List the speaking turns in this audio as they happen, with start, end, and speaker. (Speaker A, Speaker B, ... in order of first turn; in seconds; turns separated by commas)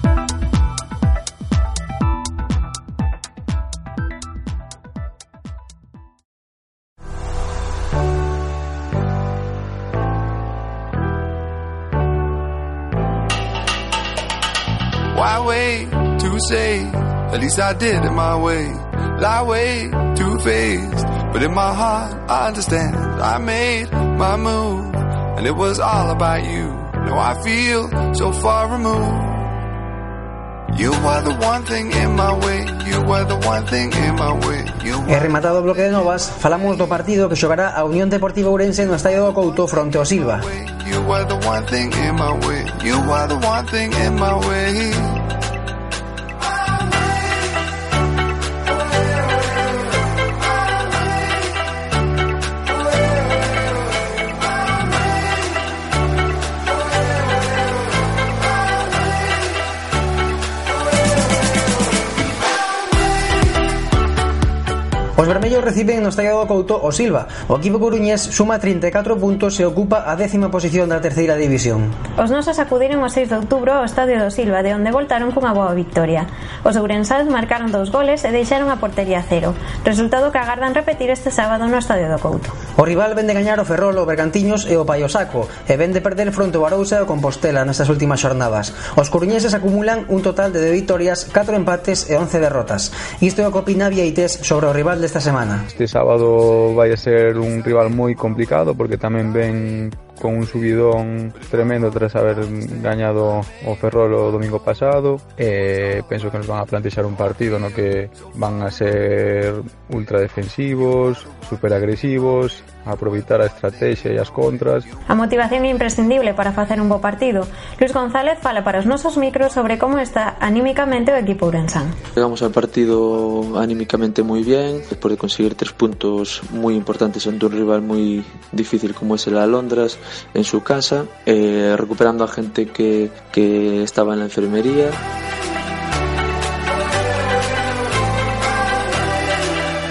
Speaker A: 15.1-29.5, Speaker A: 30.7-35.4, Speaker B: 35.1-40.4, Speaker A: 40.4-45.2, Speaker B: 65.2-72.0, Speaker C: 72.2-82.5, Speaker B: 82.8-95.7, Speaker D: 95.7-114.9, Speaker C: 115.1-122.0, Speaker E: 122.2-135.0